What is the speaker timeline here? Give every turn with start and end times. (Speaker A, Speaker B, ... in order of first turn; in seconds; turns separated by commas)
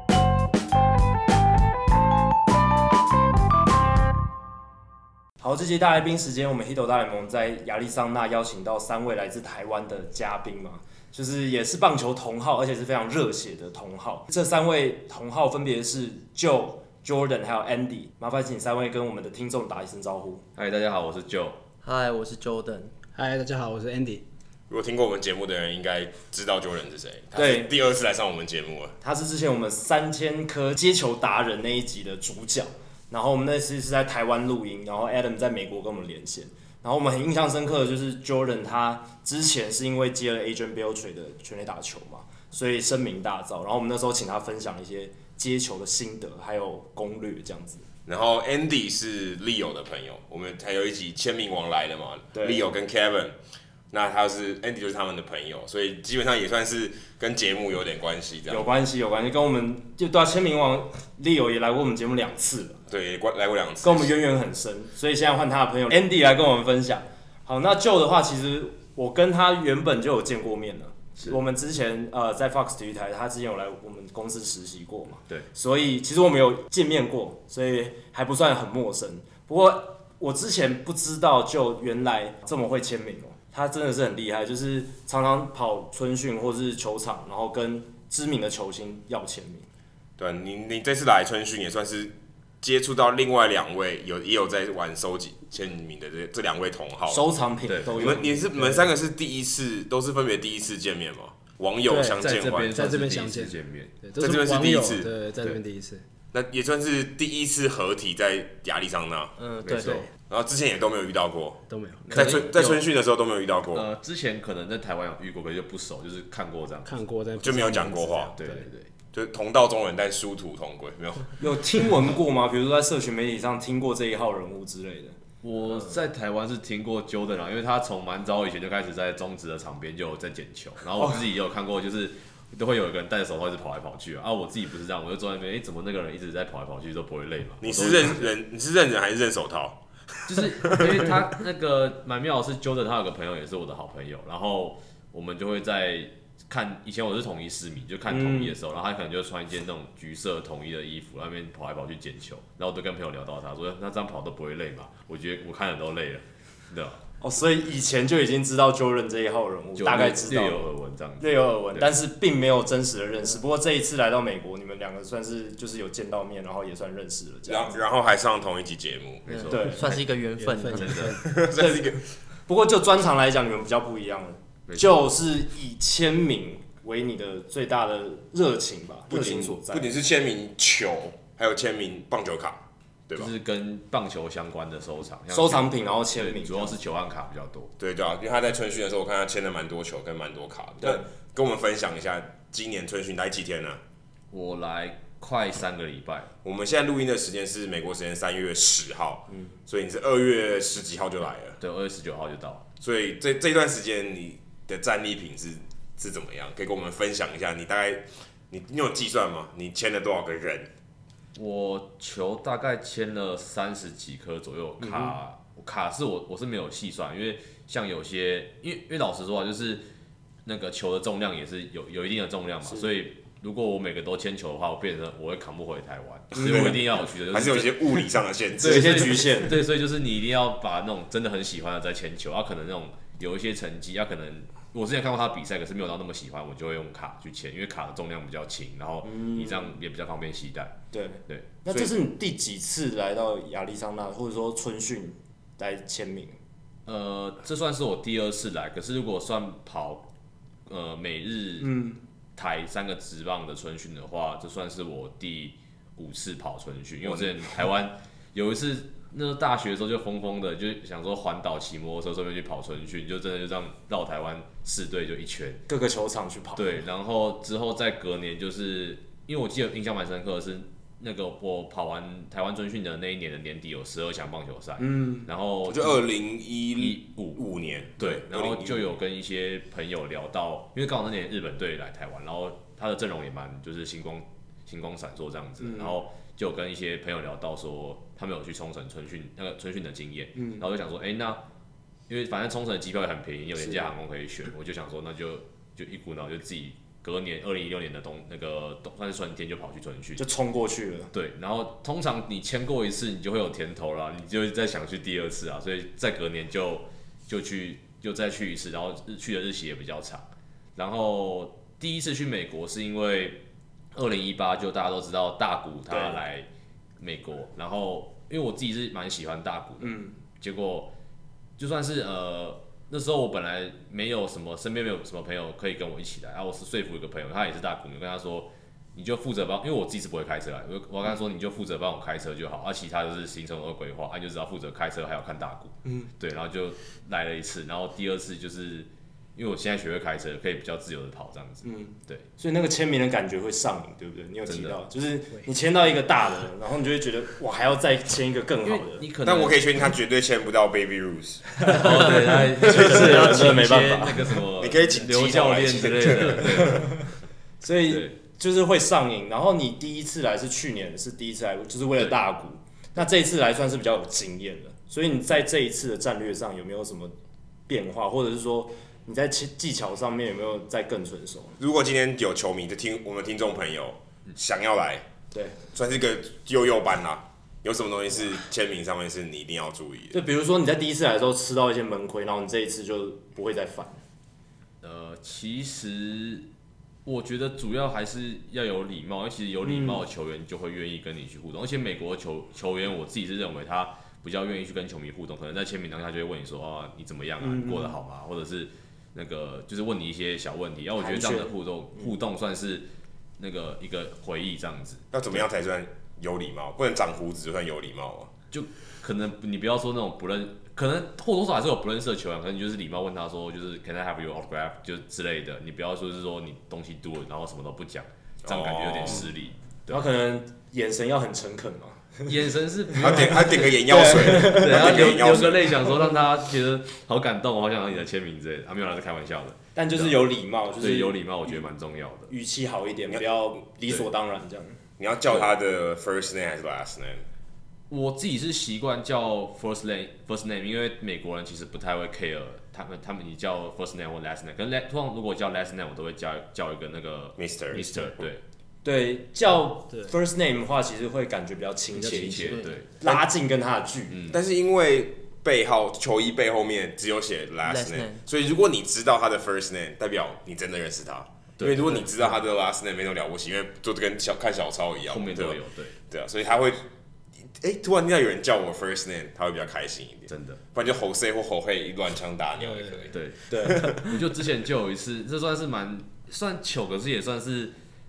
Speaker A: 5.4-20.4, Speaker B: 20.6-21.6, Speaker C: 21.8-22.9, Speaker D: 23.1-24.2, Speaker E: 24.7-29.0, Speaker A: 27.4-27.7, Speaker A: 29.0-47.9, Speaker E: 48.1-53.4, Speaker A: 52.4-52.6, Speaker E: 53.9-58.7, Speaker A: 58.5-62.8, Speaker E: 62.9-64.1, Speaker A: 63.8-89.7, Speaker E: 90.2-97.3, Speaker A: 97.1-98.9, Speaker B: 97.7-98.1, Speaker E: 97.9-102.9, Speaker D: 101.9-102.2, Speaker B: 102.0-104.0, Speaker D: 102.7-106.0, Speaker E: 104.2-105.1, Speaker E: 106.3-109.3, Speaker C: 109.4-110.0, Speaker B: 109.7-110.0, Speaker E: 110.2-113.9, Speaker D: 111.7-112.4, Speaker B: 112.1-112.8, Speaker B: 113.7-116.9, Speaker D: 116.8-118.7, Speaker E: 117.4-118.4, Speaker B: 118.4-118.9, Speaker E: 119.1-121.3, Speaker A: 121.4-125.2, Speaker B: 125.4-138.3, Speaker E: 137.6-139.8, Speaker B: 140.3-157.0, Speaker E: 140.3-141.1, Speaker A: 148.1-148.6, Speaker A: 157.2-160.7, Speaker B: 159.8-161.9, Speaker A: 161.2-167.8, Speaker E: 167.4-169.4, Speaker B: 169.3-170.0, Speaker C: 169.3-171.1, Speaker A: 169.5-169.9, Speaker D: 170.4-171.4, Speaker B: 170.7-171.3, Speaker E: 171.2-172.0, Speaker A: 171.4-179.9, Speaker B: 174.7-174.9, Speaker E: 179.1-183.3, Speaker B: 183.1-187.7, Speaker A: 185.3-186.8, Speaker E: 187.8-193.8, Speaker B: 194.3-196.3, Speaker E: 196.4-201.6, Speaker B: 201.6-202.7, Speaker E: 202.8-210.7, Speaker B: 211.3-219.9, Speaker A: 214.8-215.2, Speaker B: 220.4-228.0, Speaker E: 226.4-229.2, Speaker A: 226.4-226.7, Speaker B: 228.6-241.9, Speaker A: 228.6-229.6, Speaker A: 239.0-239.7, Speaker A: 240.9-246.4, Speaker B: 246.9-250.1, Speaker B: 250.7-265.6, Speaker A: 251.6-252.0, Speaker A: 265.7-266.7, Speaker B: 266.6-276.0, Speaker A: 274.8-275.3, Speaker E: 275.7-278.9, Speaker B: 276.8-277.4, Speaker B: 278.0-291.4, Speaker A: 285.6-285.9, Speaker A: 290.4-290.6, Speaker B: 292.1-300.3, Speaker A: 300.2-301.1, Speaker B: 301.1-313.4, Speaker B: 313.9-316.5, Speaker A: 315.9-316.2, Speaker B: 317.0-320.9, Speaker A: 319.8-320.2, Speaker B: 321.6-342.3, Speaker A: 341.6-349.0, Speaker B: 344.5-344.8, Speaker B: 348.6-349.8, Speaker E: 349.2-351.6, Speaker B: 351.6-357.1, Speaker A: 351.7-354.4, Speaker C: 352.6-354.1, Speaker E: 354.6-356.8, Speaker A: 357.6-367.1, Speaker B: 357.9-358.1, Speaker A: 367.7-371.6, Speaker E: 371.6-375.1, Speaker A: 375.3-375.6, Speaker E: 375.7-380.2, Speaker A: 380.1-384.0, Speaker B: 384.8-386.5, Speaker B: 387.1-402.9, Speaker A: 389.6-390.0, Speaker A: 397.4-397.9, Speaker A: 401.0-402.1, Speaker B: 403.4-405.4, Speaker E: 405.1-408.3, Speaker B: 408.5-420.1, Speaker E: 418.4-419.3, Speaker A: 419.9-422.3, Speaker B: 422.3-432.3, Speaker E: 422.9-425.8, Speaker A: 423.1-423.3, Speaker A: 423.9-425.0, Speaker A: 429.8-431.6, Speaker A: 432.3-434.8, Speaker E: 435.0-437.3, Speaker B: 437.9-448.4, Speaker E: 447.4-448.3, Speaker A: 448.8-454.2, Speaker B: 451.9-452.9, Speaker C: 452.4-452.7, Speaker B: 454.1-454.4, Speaker E: 454.3-465.6, Speaker C: 457.7-458.2, Speaker B: 461.6-461.9, Speaker B: 465.1-466.0, Speaker E: 466.1-466.8, Speaker E: 467.6-473.9, Speaker B: 470.3-470.6, Speaker D: 472.6-473.1, Speaker B: 473.1-477.8, Speaker A: 473.5-474.1